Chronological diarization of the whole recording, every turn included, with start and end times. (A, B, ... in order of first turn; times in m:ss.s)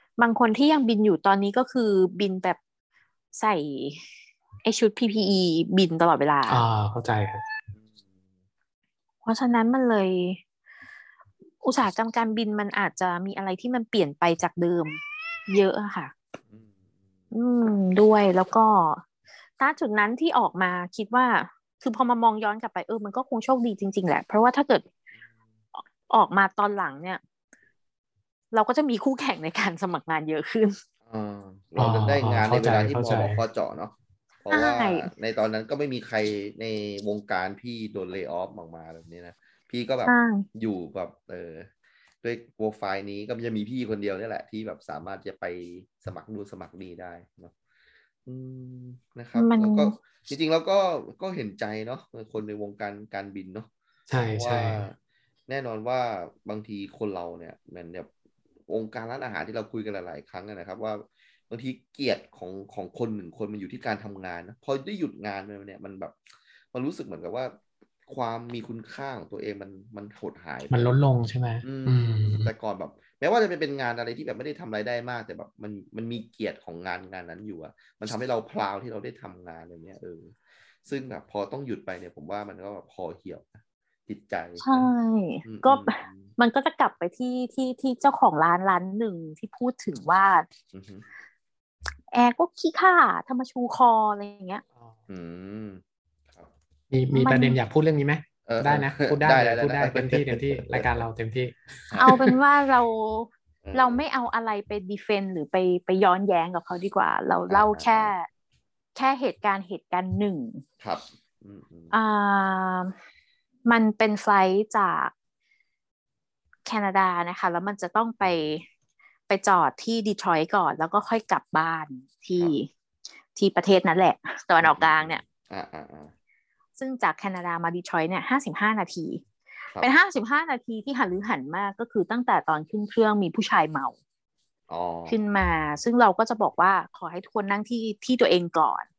0:00.2-0:02.6 A
0:03.4-0:04.0 A
0:04.6-0:06.6 A
0:06.5-0:07.4 B
0:07.7-0:08.1 C
0:09.2-0:10.4 A
0:11.6-0:16.1 A
0:16.5-0:16.8 C
0:17.3-0:19.0 A
0:19.6-0:24.9 A
0:26.1-0:27.2 A
0:28.5-0:30.8 A
0:31.1-0:33.9 C
0:31.8-0:33.4 B
0:34.4-0:41.7 C
0:34.5-0:35.1 A
0:40.1-0:40.4 A
0:42.2-0:47.5 C
0:48.2-0:53.7 C
0:49.4-0:50.0 A
0:54.1-0:54.8 B
0:54.3-0:55.0 C
0:55.5-0:58.1 C
0:58.7-1:06.2 C
1:06.7-1:10.9 C
1:10.7-1:12.5 B
1:11.6-1:24.7 C
1:24.6-1:30.5 A
1:25.4-1:26.3 C
1:30.7-1:31.0 C
1:32.1-1:34.6 A
1:35.1-1:36.5 C
1:36.9-1:42.3 B
1:37.1-1:37.6 A
1:38.5-1:41.1 C
1:41.9-1:42.3 C
1:42.0-1:48.3 A
1:43.6-1:44.0 C
1:47.5-1:48.1 C
1:49.0-1:50.6 A
1:50.8-1:51.9 C
1:51.9-1:52.9 A
1:53.7-1:55.1 A
1:56.7-1:58.6 A
1:59.3-2:02.7 A
2:03.4-2:05.2 A
2:04.6-2:06.1 C
2:06.8-2:09.2 A
2:09.8-2:14.0 A
2:14.7-2:15.2 C
2:15.1-2:18.8 A